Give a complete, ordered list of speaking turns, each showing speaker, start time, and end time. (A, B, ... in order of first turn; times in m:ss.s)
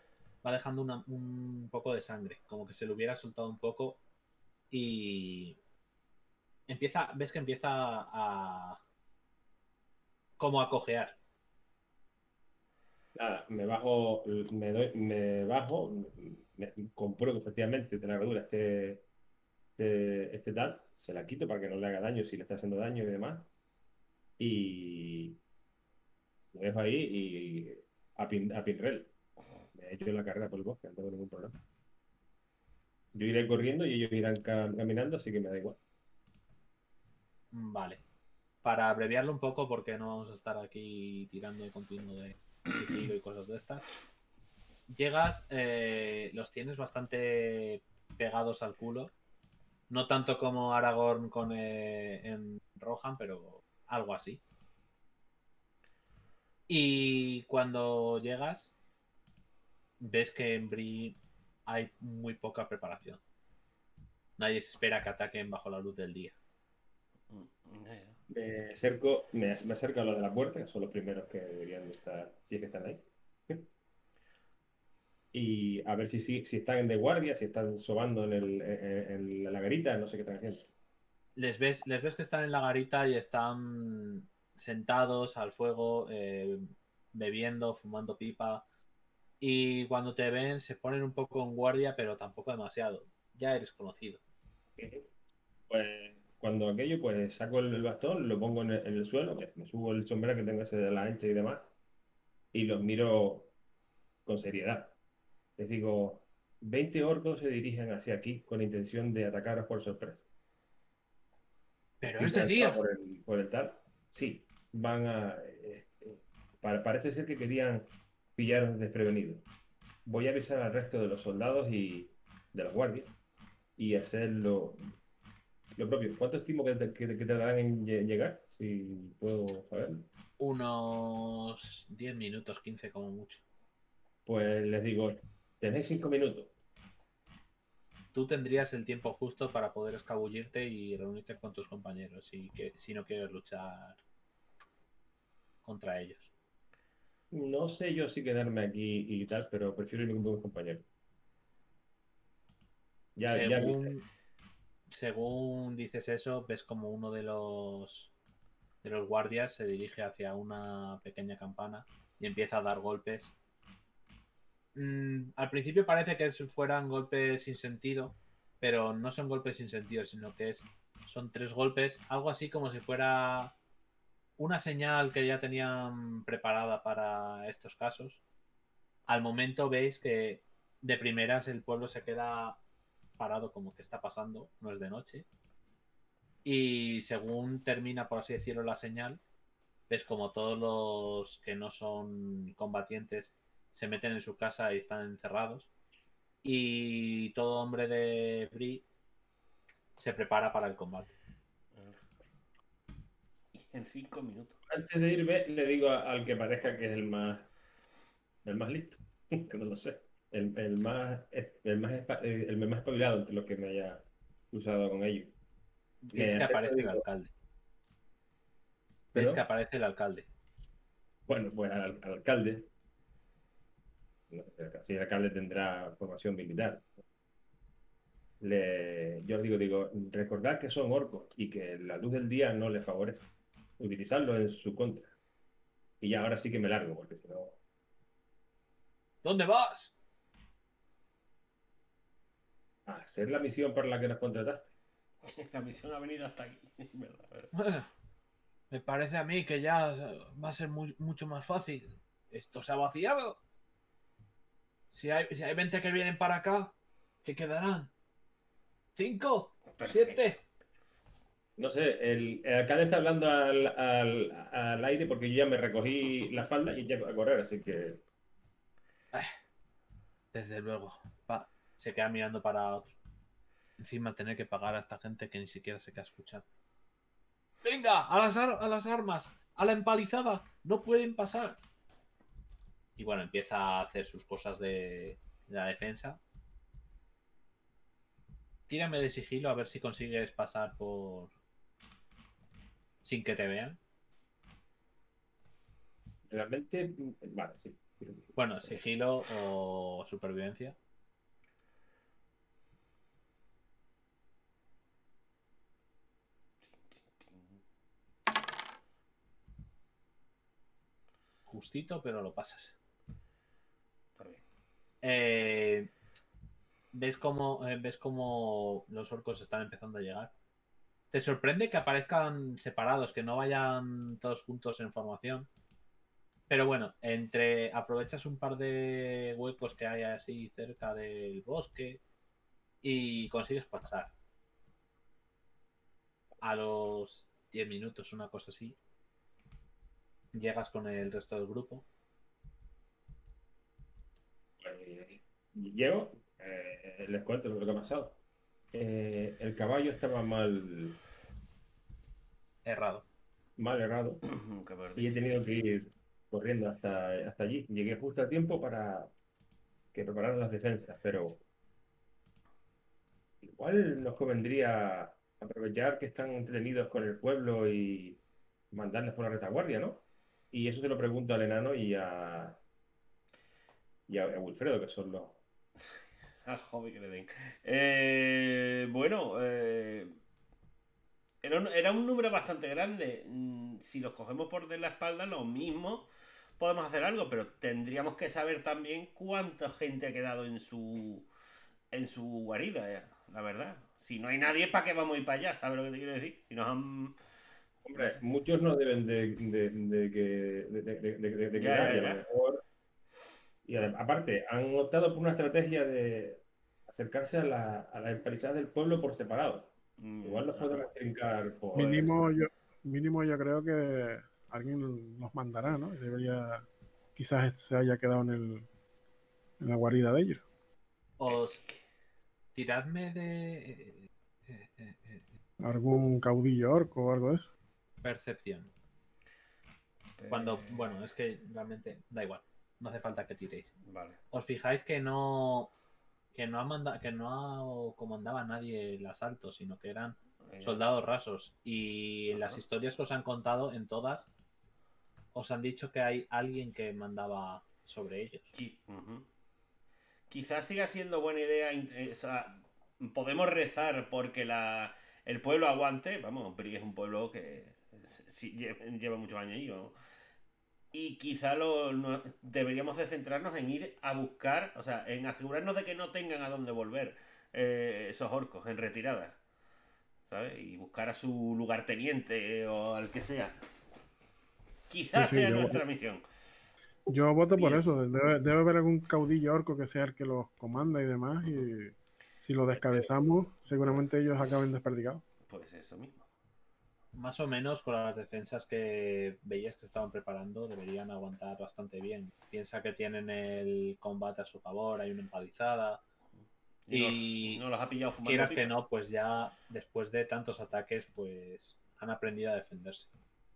0:00.4-0:04.0 A
0:04.7-0:05.6 A
0:06.7-0:08.8 A
0:10.4-0:11.2 A
0:13.1-0:19.0 B
0:19.8-0:23.5 B
0:24.4-0:25.4 B
0:26.5-0:29.1 B
0:29.7-0:31.6 B
0:33.1-0:35.8 B
0:37.5-0:38.0 A
0:38.6-0:43.8 A
0:44.9-0:49.1 A
0:49.9-0:54.4 A
0:56.7-0:58.7 A
1:00.0-1:03.2 A
1:04.4-1:06.3 A
1:07.3-1:08.2 C
1:08.3-1:13.6 B
1:15.3-1:20.7 B
1:21.4-1:28.6 A
1:29.4-1:34.2 A
1:34.8-1:35.1 B
1:35.7-1:41.7 B
1:42.5-1:43.5 B
1:44.2-1:44.9 B
1:45.6-1:50.2 B
1:52.0-1:52.8 A
1:52.2-1:59.4 B
2:00.0-2:03.1 B
2:03.8-2:04.9 B
2:05.7-2:10.1 B
2:10.4-2:13.4 A
2:14.2-2:16.5 B
2:18.1-2:24.0 A
2:25.6-2:26.3 A
2:27.3-2:30.8 B
2:33.1-2:33.9 B
2:33.2-2:34.0 A
2:34.9-2:38.1 A
2:38.8-2:43.3 A
2:44.7-2:53.5 A
2:54.4-2:58.2 A
2:59.1-3:02.6 A
3:03.2-3:05.2 A
3:06.4-3:09.2 A
3:09.9-3:15.7 A
3:16.4-3:18.8 A
3:20.0-3:21.1 A
3:21.7-3:22.0 C
3:23.5-3:24.6 C
3:24.7-3:27.5 B
3:28.4-3:35.3 B
3:36.0-3:37.3 A
3:36.1-3:37.0 B
3:39.1-3:39.4 B
3:39.1-3:40.2 A
3:41.3-3:42.7 B
3:44.3-3:46.9 B
3:48.4-3:55.1 B
3:56.0-3:57.6 B
3:59.2-3:59.9 A
4:02.8-4:04.7 B
4:05.2-4:07.5 C
4:07.5-4:07.9 A
4:08.7-4:13.4 A
4:14.9-4:17.9 A
4:19.0-4:20.4 A
4:19.7-4:20.3 C
4:21.6-4:28.0 B
4:30.3-4:32.9 A
4:33.8-4:36.4 A
4:37.6-4:41.6 A
4:43.0-4:46.2 A
4:48.7-4:51.3 A
4:53.0-4:53.8 A
4:56.3-4:58.7 B
4:58.3-5:00.8 A
5:06.6-5:07.6 C
5:11.5-5:12.7 A
5:14.2-5:14.4 C
5:15.0-5:15.9 A
5:16.9-5:20.3 A
5:21.1-5:25.5 A
5:26.5-5:32.0 A
5:32.8-5:34.1 A
5:36.4-5:38.8 A
5:40.3-5:41.8 A
5:44.6-5:48.2 B
5:48.7-5:51.0 B
5:52.6-5:53.0 A
5:53.6-5:54.2 B
5:54.3-5:55.2 C
5:55.0-5:59.1 B
5:59.9-6:01.4 B
6:03.4-6:08.2 B
6:08.7-6:12.6 B
6:14.1-6:15.4 B
6:16.4-6:20.2 C
6:21.4-6:26.1 C
6:26.6-6:31.3 C
6:31.9-6:37.2 C
6:37.8-6:42.6 B
6:37.9-6:38.2 C
6:41.6-6:42.2 C
6:43.6-6:49.7 B
6:50.0-6:50.9 C
6:50.2-6:52.2 B
6:51.7-6:56.6 D
6:57.2-6:58.7 D
6:59.6-7:00.4 D
7:01.2-7:01.6 A
7:01.3-7:01.8 C
7:02.5-7:05.2 A
7:05.6-7:07.5 D
7:08.0-7:08.7 A
7:10.2-7:11.0 C
7:10.3-7:13.7 A
7:13.8-7:14.2 C
7:14.3-7:15.7 A
7:16.3-7:24.3 A
7:20.4-7:20.8 C
7:22.3-7:22.6 C
7:25.3-7:28.5 A
7:28.5-7:29.2 C
7:30.3-7:39.9 C
7:40.9-7:49.4 C
7:50.2-7:53.6 C
7:54.9-7:56.2 C
7:55.1-7:55.8 D
7:57.1-8:05.2 D
8:01.4-8:01.7 C
8:05.4-8:06.2 C
8:07.1-8:16.0 A
8:16.9-8:18.7 C
8:16.9-8:17.6 A
8:18.2-8:23.1 A